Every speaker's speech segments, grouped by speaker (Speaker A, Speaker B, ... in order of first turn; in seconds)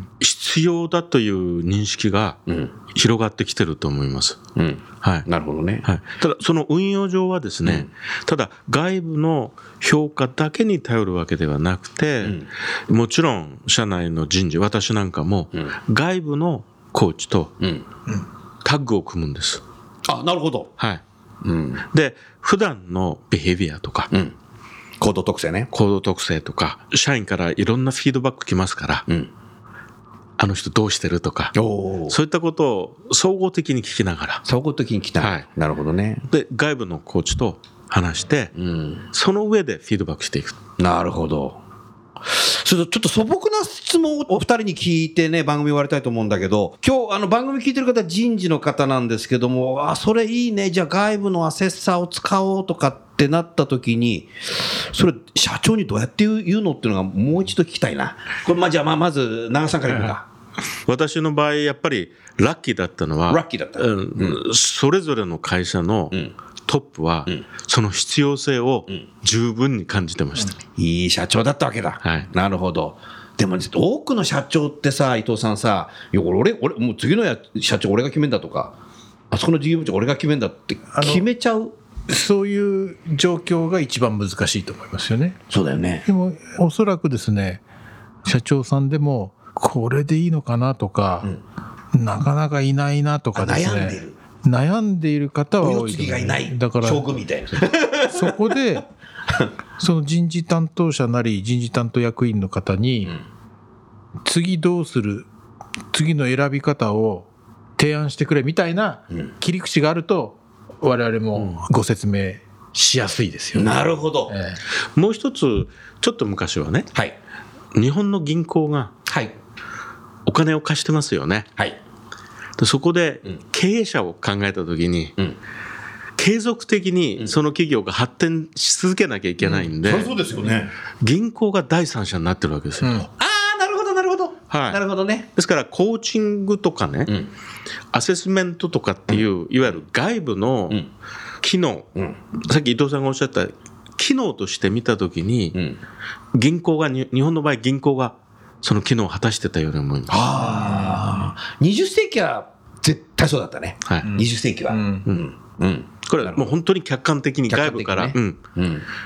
Speaker A: 0.2-2.4, 2.9-4.4, 5.0-5.3, 5.8-17.6, 18.6-19.6, 21.9-24.1, 25.7-29.0, 30.4-31.5, 32.1-34.4, 35.2-35.5, 36.3-38.5, 39.1-40.6, 60.9-70.5, 115.0-116.9, 117.7-118.9, 120.2-121.5, 122.6-125.1, 126.2-130.1, 131.0-133.1, 134.5-134.8, 135.3-137.1, 137.9-140.8, 141.4-145.6, 146.3-150.2, 153.8-154.1, 156.2-158.4
Speaker B: 2.5-2.7, 4.5-5.8, 12.2-12.5, 17.6-17.9, 20.1-20.7, 21.4-21.8, 24.1-24.3, 25.0-25.7, 31.5-32.1, 34.4-36.2, 38.5-39.0, 40.8-41.6, 42.2-60.2, 63.3-64.4, 70.8-78.7, 79.3-81.7, 85.5-86.0, 93.3-94.2, 95.6-98.3, 113.5-114.4, 119.1-119.3, 129.4-130.7, 133.2-135.3, 145.5-145.8, 150.1-156.5, 157.5-158.8
Speaker C: 80.9-81.2, 82.1-85.4, 86.0-87.6, 88.2-91.3, 91.9-97.2, 98.1-98.8, 99.8-103.2, 104.2-105.3, 105.9-114.6, 132.8-133.1, 150.4-151.2, 154.1-155.0